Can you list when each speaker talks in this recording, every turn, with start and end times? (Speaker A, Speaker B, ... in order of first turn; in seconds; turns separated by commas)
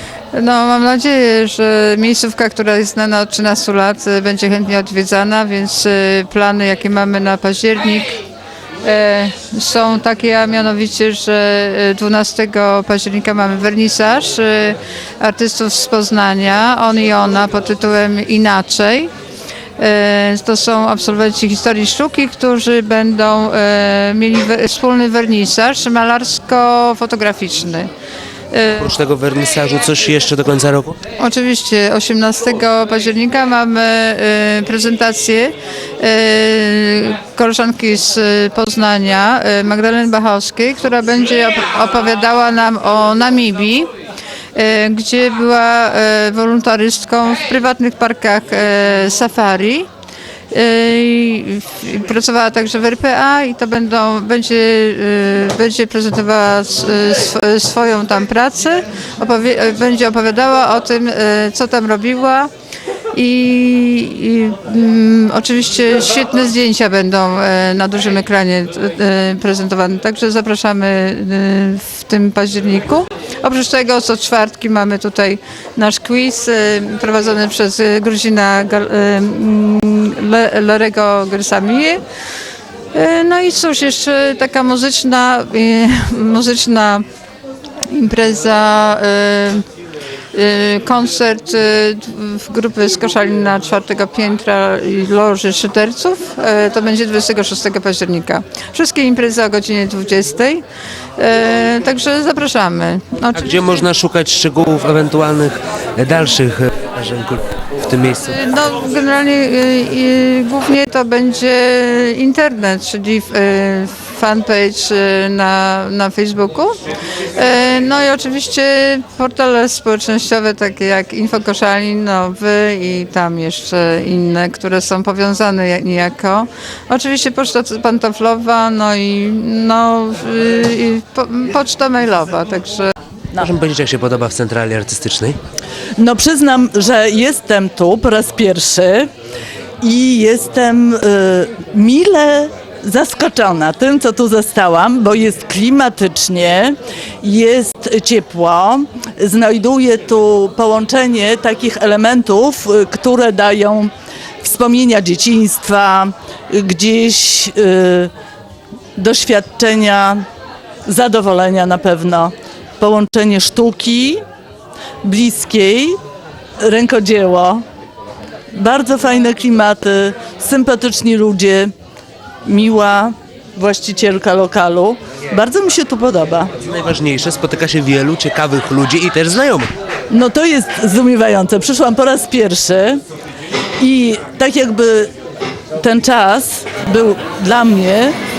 Speaker A: 0.3-8.2, Speaker A: 8.8-19.1, Speaker A: 19.8-27.9, Speaker A: 28.5-28.9, Speaker B: 28.8-31.0, Speaker A: 31.2-43.9, Speaker A: 44.5-49.9, Speaker A: 50.5-62.5, Speaker A: 63.1-82.0, Speaker A: 82.9-87.0, Speaker A: 87.9-89.6, Speaker A: 90.3-100.6, Speaker A: 101.2-103.8, Speaker B: 103.3-108.3, Speaker A: 108.2-116.8, Speaker A: 117.3-132.9, Speaker B: 133.3-135.4, Speaker C: 135.9-139.1, Speaker C: 139.8-158.1, Speaker C: 158.9-160.2, Speaker C: 160.8-164.2, Speaker C: 165.0-166.0, Speaker C: 166.6-167.6, Speaker C: 168.5-171.7, Speaker C: 172.4-176.5, Speaker B: 176.6-179.7, Speaker C: 180.1-183.0, Speaker C: 183.8-185.1, Speaker C: 185.8-188.1